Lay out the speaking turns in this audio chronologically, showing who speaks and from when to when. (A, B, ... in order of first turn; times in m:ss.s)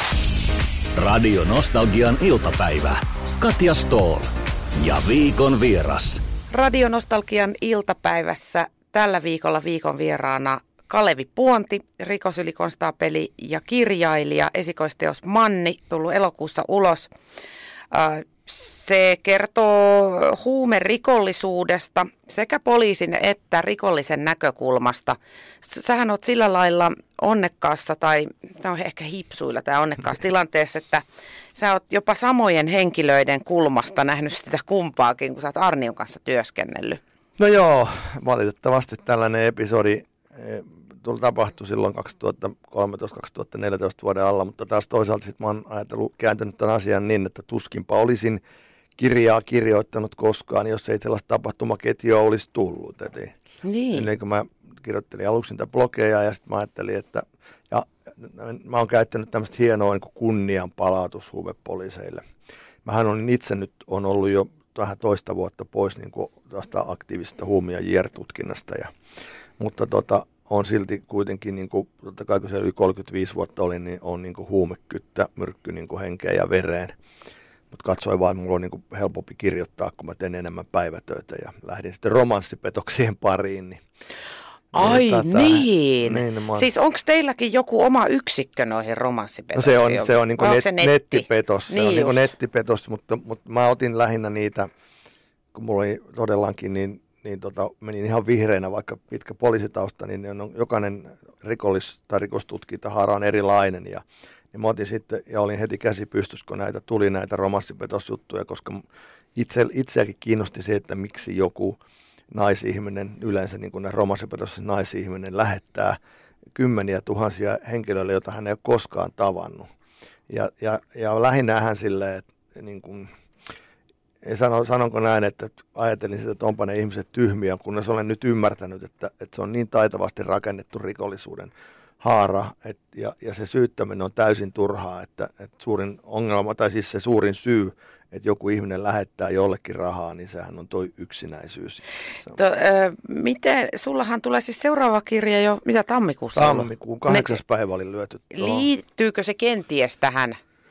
0:00.9-0:06.2 A
0:06.5-0:17.1 B
0:17.9-0:31.0 B
0:31.6-0:37.0 B
0:37.4-0:48.4 C
0:49.0-0:53.3 C
0:53.6-0:54.1 B
0:53.9-1:02.2 C
1:02.8-1:08.9 C
1:09.6-1:17.0 C
1:17.7-1:23.8 C
1:24.7-1:26.7 C
1:24.7-1:32.3 B
1:29.5-1:34.7 C
1:35.5-1:48.8 C
1:49.3-1:51.8 C
1:52.3-1:56.0 C
1:56.5-1:59.7 C
2:00.3-2:03.1 C
2:04.2-2:22.4 C
2:22.3-2:27.4 B
2:26.4-2:28.7 C
2:28.3-2:30.4 B